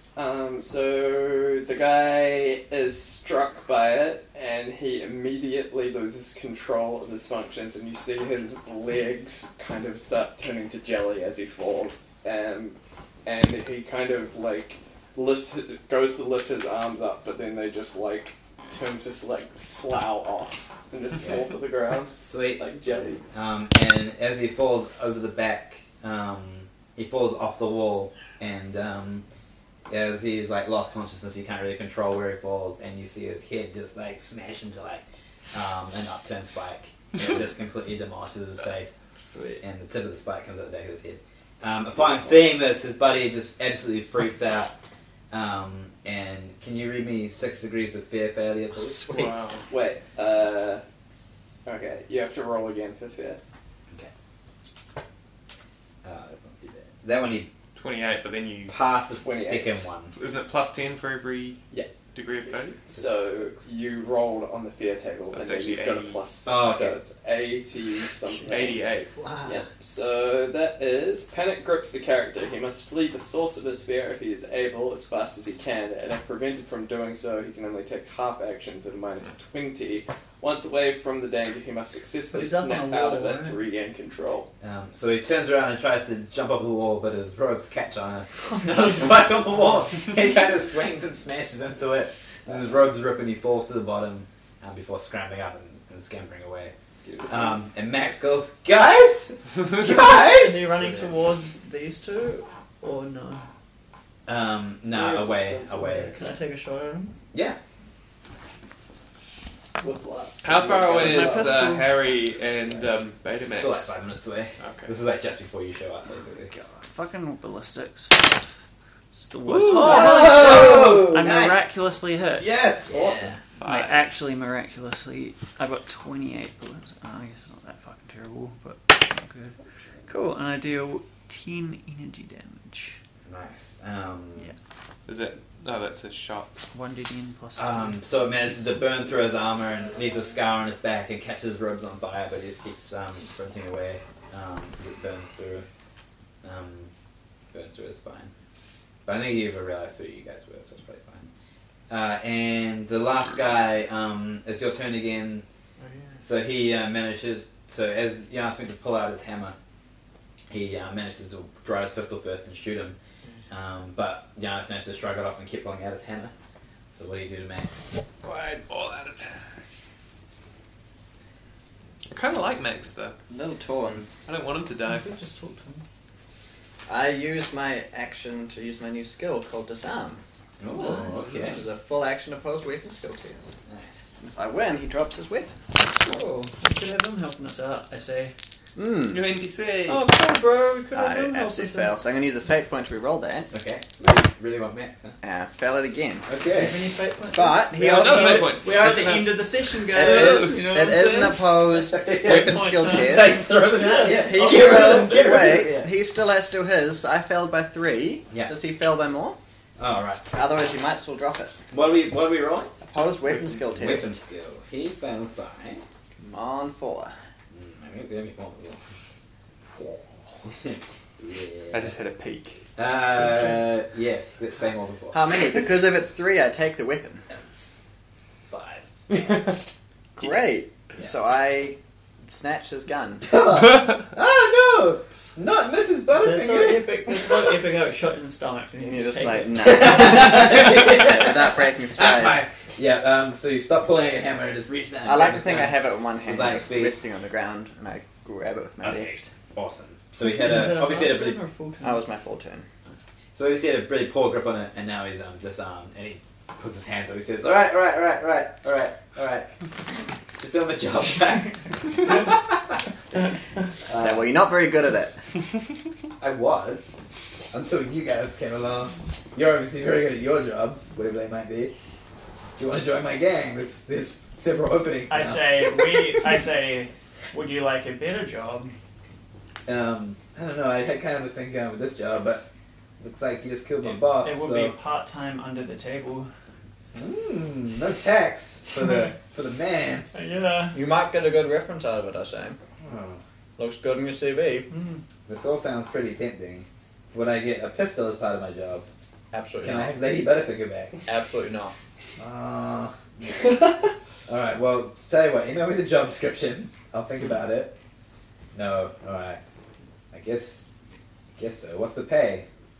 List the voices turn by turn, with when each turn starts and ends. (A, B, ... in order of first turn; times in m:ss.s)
0:00.2-0:23.2 A
0:21.2-0:21.5 B
0:22.2-0:22.7 B
0:23.3-0:29.2 B
0:29.9-0:39.0 B
0:39.2-0:39.6 C
0:39.6-0:44.7 B
0:45.3-0:49.1 B
0:48.7-0:49.6 D
0:49.1-0:50.8 A
0:49.2-0:49.6 E
0:51.6-0:53.4 A
0:56.0-0:57.5 B
0:57.7-0:58.8 E
0:58.7-1:00.1 B
0:59.1-0:59.9 A
1:00.2-1:02.8 E
1:02.8-1:08.8 A
1:02.9-1:03.3 B
1:05.3-1:06.2 E
1:06.4-1:07.0 B
1:08.4-1:09.1 E
1:09.1-1:09.6 D
1:09.4-1:24.5 A
1:22.3-1:23.6 C
1:24.6-1:36.7 B
1:28.4-1:29.3 C
1:37.0-1:37.6 A
1:37.3-1:40.7 B
1:40.1-1:43.5 C
1:44.2-1:46.1 B
1:44.9-1:46.1 A
1:45.8-1:47.1 C
1:49.8-1:51.7 A
1:50.4-1:53.9 E
1:51.0-1:51.4 B
1:51.0-1:52.0 C
1:53.3-1:56.6 B
1:54.6-1:54.9 E
1:56.5-1:58.4 C
1:59.1-2:02.5 C
1:59.8-2:01.6 B
1:59.8-2:00.0 E
2:00.0-2:00.3 D
2:02.4-2:03.4 B
2:02.9-2:03.2 A
2:03.6-2:04.0 E
2:03.6-2:09.5 C
2:10.1-2:12.9 C
2:13.2-2:14.5 B
2:15.0-2:16.6 E
2:16.7-2:18.0 C
2:17.6-2:25.6 B
2:26.4-2:26.9 B
2:27.5-2:28.3 B
2:29.0-2:31.3 B
2:31.9-2:35.4 B
2:36.2-2:39.5 B
2:40.5-2:43.0 B
2:43.5-2:46.3 B
2:46.9-2:47.7 B
2:48.2-2:49.4 E
2:52.1-2:53.2 E
2:53.3-2:54.1 D
2:54.2-2:55.1 E
2:54.8-2:55.8 C
2:56.8-3:00.2 D
3:00.6-3:01.6 B
3:00.7-3:01.3 C
3:01.0-3:03.5 D
3:03.7-3:04.2 B
3:04.2-3:05.5 D
3:05.9-3:08.3 C
3:08.8-3:09.4 D
3:09.1-3:10.1 E
3:09.8-3:12.0 C
3:10.9-3:13.5 D
3:13.5-3:15.2 B
3:15.2-3:16.3 D
3:16.2-3:16.8 B
3:16.4-3:21.5 C
3:17.3-3:18.6 D
3:17.8-3:19.5 E
3:19.9-3:23.4 D
3:20.0-3:20.6 E
3:21.7-3:25.9 B
3:22.2-3:25.4 C
3:24.0-3:29.4 D
3:29.8-3:30.2 B
3:30.3-3:31.5 D
3:31.7-3:32.7 B
3:32.8-3:34.2 D
3:33.7-3:35.8 B
3:36.2-3:37.1 D
3:37.5-3:38.8 B
3:39.8-3:41.9 B
3:41.7-3:42.6 E
3:42.8-3:45.2 B
3:45.1-3:47.2 D
3:47.3-3:47.8 B
3:48.5-3:49.2 B
3:50.2-3:53.4 D
3:53.2-3:56.9 B
3:56.1-3:59.7 C
3:58.8-4:02.4 D
3:59.6-4:07.0 B
4:05.0-4:09.3 D
4:08.8-4:11.4 B
4:10.2-4:12.0 C
4:11.8-4:12.6 D
4:13.3-4:19.5 B
4:20.4-4:22.8 B
4:23.9-4:24.3 B
4:23.9-4:25.2 D
4:26.2-4:27.0 B
4:27.5-4:31.7 B
4:32.6-4:35.6 B
4:35.1-4:38.7 C
4:39.7-4:42.4 B
4:43.0-4:44.7 B
4:43.8-4:46.3 C
4:46.9-4:50.1 B
4:50.1-4:50.8 C
4:50.7-4:52.6 D
4:52.8-4:53.2 B
4:53.6-4:54.7 D
4:54.7-4:55.0 C
4:55.3-4:58.9 B
4:59.3-5:00.0 D
4:59.6-5:01.0 B
5:01.0-5:01.7 D
5:02.2-5:03.7 B
5:04.3-5:07.7 B
5:08.5-5:09.4 B
5:10.1-5:10.6 B
5:11.4-5:12.5 B